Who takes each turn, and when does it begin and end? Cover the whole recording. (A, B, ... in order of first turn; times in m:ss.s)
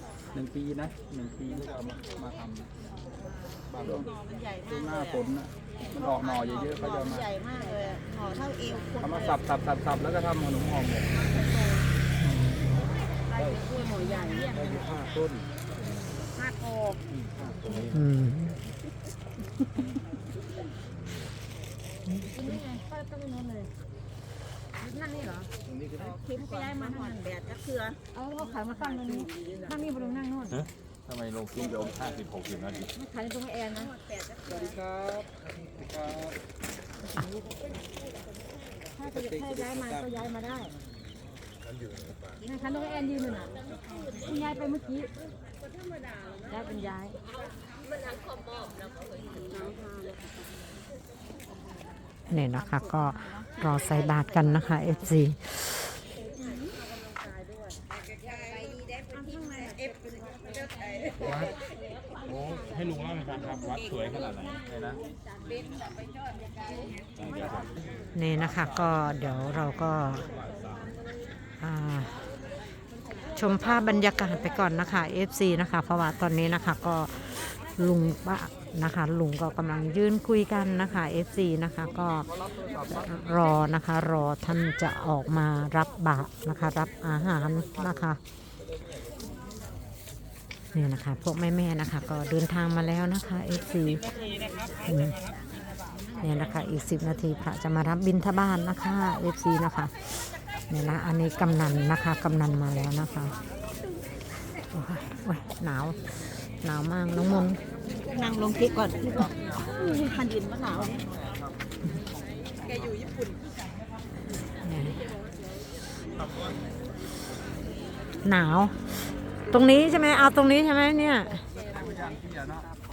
0:00.3-0:02.7 A
0:03.8-0:04.1 A
0:04.0-0:05.2 B
0:04.7-0:07.3 A
0:05.8-0:09.4 B
0:09.0-0:11.4 A
0:12.2-0:12.9 C
0:13.4-0:14.6 B
0:14.4-0:15.5 A
0:17.1-0:17.7 A
0:17.9-0:18.6 C
0:22.1-0:22.3 C
0:22.3-0:23.7 D
0:24.8-0:25.5 D
0:25.9-0:28.0 B
0:26.3-0:27.2 D
0:28.2-0:30.7 D
0:30.6-0:32.9 E
0:31.2-0:31.9 A
0:33.0-0:33.9 D
0:33.7-0:34.8 B
0:34.5-0:36.4 A
0:39.0-0:40.7 D
0:39.1-0:40.0 A
0:42.4-0:43.5 D
0:43.6-0:44.3 B
0:44.2-0:45.1 D
0:46.5-0:47.2 D
0:52.3-0:55.9 C
0:53.4-0:54.6 B
0:59.2-0:59.7 B
1:01.2-1:01.5 E
1:02.3-1:04.6 E
1:04.6-1:05.0 A
1:07.2-1:07.7 E
1:08.1-1:10.3 C
1:11.6-1:12.2 C
1:13.4-1:22.3 C
1:22.3-1:23.2 A
1:22.9-1:28.2 C
1:30.7-1:34.0 C
1:34.8-1:35.2 C
1:36.2-1:40.1 C
1:40.7-1:43.4 C
1:44.7-1:47.6 C
1:48.1-1:51.1 B
1:48.8-1:51.5 A
1:54.6-1:55.1 C
1:58.2-1:59.0 C
1:59.5-2:01.5 C
2:01.8-2:02.6 A